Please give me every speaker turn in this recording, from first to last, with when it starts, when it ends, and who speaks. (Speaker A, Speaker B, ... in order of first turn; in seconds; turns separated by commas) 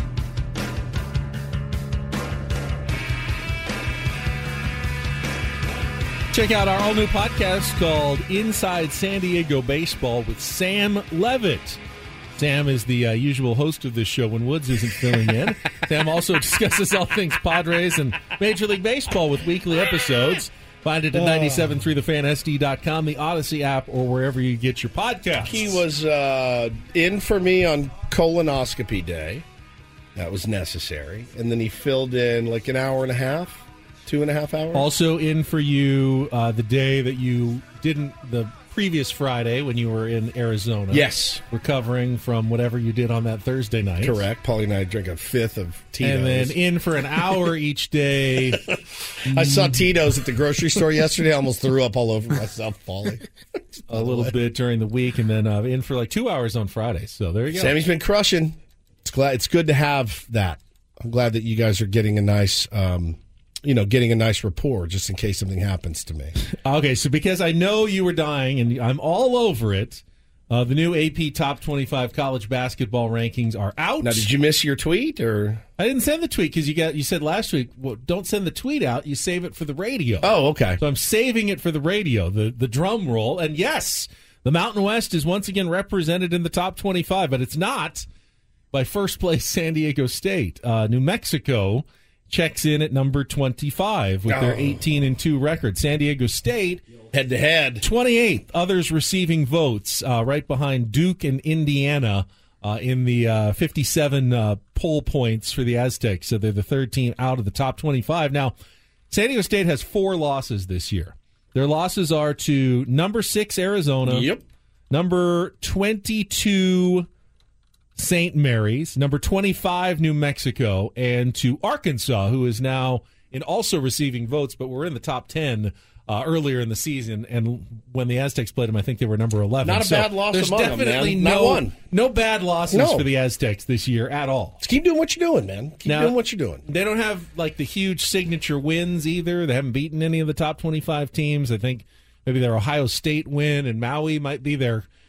Speaker A: 6.3-11.8, Speaker A: 12.4-25.8, Speaker B: 21.1-21.8, Speaker B: 25.4-29.4, Speaker B: 30.1-34.9, Speaker A: 34.7-44.2, Speaker B: 40.9-41.4, Speaker B: 44.0-46.5, Speaker A: 46.0-49.8, Speaker B: 49.2-54.3, Speaker A: 53.9-57.8, Speaker B: 57.5-66.4, Speaker A: 66.6-74.3, Speaker B: 74.0-75.6, Speaker A: 75.8-88.0, Speaker B: 80.2-80.8, Speaker A: 88.7-96.8, Speaker B: 94.3-94.8, Speaker B: 97.1-97.9, Speaker A: 97.8-108.5, Speaker A: 109.1-114.3, Speaker B: 114.0-114.4, Speaker A: 114.9-117.1, Speaker A: 118.0-134.6, Speaker B: 129.6-131.7, Speaker B: 132.7-133.1, Speaker B: 134.6-136.6, Speaker A: 135.9-144.9